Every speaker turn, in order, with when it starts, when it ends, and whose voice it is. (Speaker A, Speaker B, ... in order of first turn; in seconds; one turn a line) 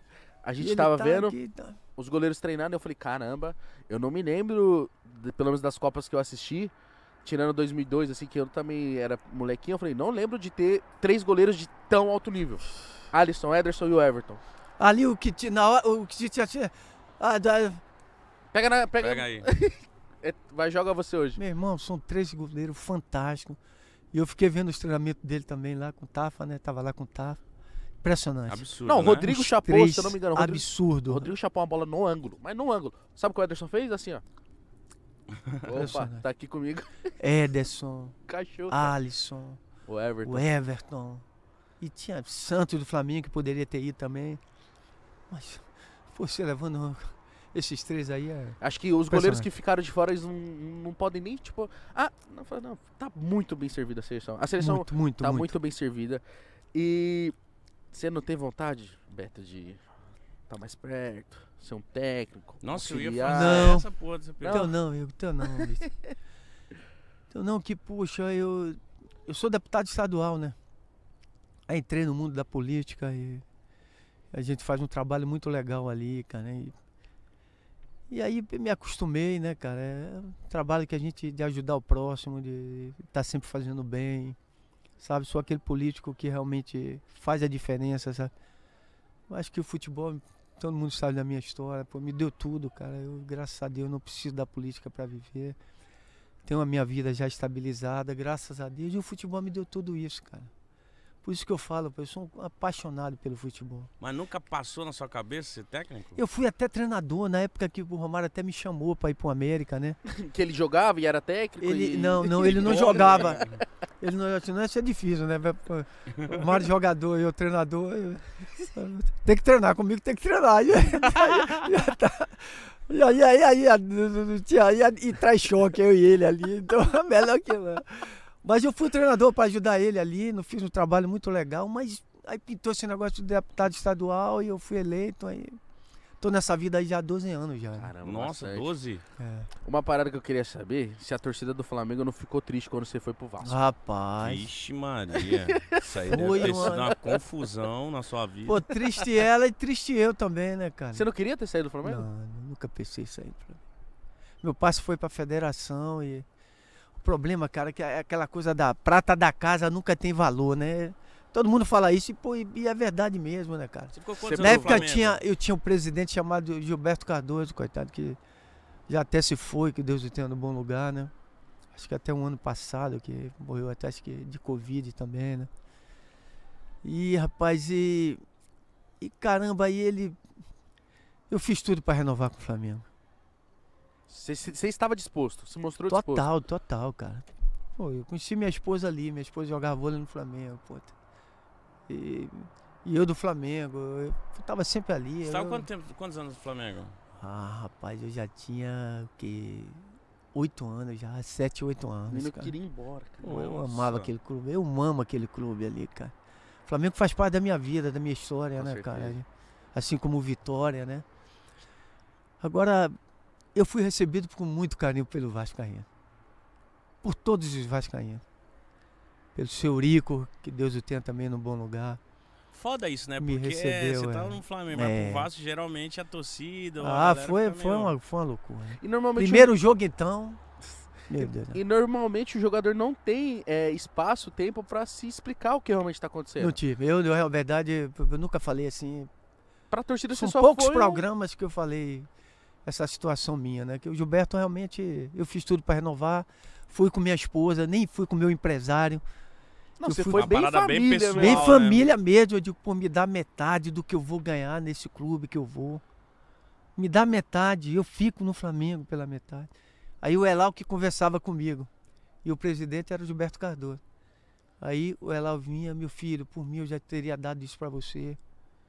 Speaker A: 0.4-1.4
Speaker B: 0.6-1.8
Speaker A: 1.9-6.7
Speaker A: 7.2-14.4
Speaker B: 14.8-17.8
Speaker A: 18.5-21.4
Speaker C: 19.0-19.5
Speaker B: 21.4-23.6
Speaker B: 24.1-27.4
Speaker B: 28.0-31.3
Speaker C: 28.5-29.3
Speaker A: 28.8-34.2
Speaker A: 35.6-37.1
Speaker B: 35.7-36.2
Speaker B: 37.2-38.1
Speaker A: 38.3-38.9
Speaker B: 38.7-39.6
Speaker A: 39.9-40.5
Speaker B: 40.2-41.2
Speaker B: 41.8-44.4
Speaker B: 45.3-48.6
Speaker A: 48.6-56.2
Speaker B: 49.1-49.5
Speaker B: 54.6-55.5
Speaker A: 56.7-57.3
Speaker A: 57.9-59.8
Speaker A: 60.5-63.8
Speaker C: 62.6-64.7
Speaker B: 63.3-63.9
Speaker A: 64.4-64.7
Speaker B: 64.5-65.9
Speaker A: 65.4-66.1
Speaker B: 67.3-70.5
Speaker B: 71.7-73.4
Speaker B: 74.3-76.7
Speaker B: 78.1-84.4
Speaker B: 85.0-88.3
Speaker B: 89.3-95.6
Speaker B: 96.4-100.5
Speaker B: 101.2-103.9
Speaker C: 104.0-106.2
Speaker B: 106.1-110.0
Speaker A: 110.0-113.5
Speaker B: 111.6-113.4
Speaker C: 112.5-113.6
Speaker B: 114.0-135.6
Speaker B: 136.2-137.9
Speaker A: 137.8-138.7
Speaker C: 138.0-139.0
Speaker B: 139.2-139.5
Speaker A: 139.6-143.6
Speaker B: 143.4-144.5
Speaker C: 144.2-148.6
Speaker A: 145.2-147.2
Speaker B: 146.0-147.0
Speaker B: 148.4-151.1
Speaker A: 150.9-152.1
Speaker B: 151.8-153.6
Speaker B: 154.4-156.2
Speaker B: 157.0-168.2
Speaker C: 163.9-165.2
Speaker A: 164.2-164.8
Speaker B: 168.9-171.1
Speaker B: 171.7-175.5
Speaker B: 176.8-178.2
Speaker B: 179.0-180.2
Speaker B: 181.3-182.8
Speaker A: 184.1-186.3
Speaker B: 185.9-190.9
Speaker B: 191.9-195.7
Speaker C: 195.2-197.0
Speaker B: 197.1-202.5
Speaker A: 202.1-203.5
Speaker B: 203.2-206.1
Speaker C: 203.2-204.1
Speaker B: 206.7-211.1
Speaker A: 208.6-209.2
Speaker B: 212.4-212.9
Speaker B: 213.5-215.9
Speaker B: 217.0-218.2
Speaker B: 219.3-222.0
Speaker C: 222.5-227.9
Speaker B: 223.2-225.3
Speaker B: 226.8-230.4
Speaker A: 228.8-229.5
Speaker B: 231.1-231.6
Speaker A: 231.2-236.6
Speaker B: 236.4-239.1
Speaker A: 239.7-241.0
Speaker B: 240.1-242.1
Speaker B: 242.6-249.0
Speaker A: 249.8-251.6
Speaker B: 249.8-250.4
Speaker C: 250.1-251.8
Speaker B: 251.1-255.8
Speaker B: 256.8-259.5
Speaker B: 260.0-261.7
Speaker B: 262.2-263.8
Speaker B: 264.6-268.2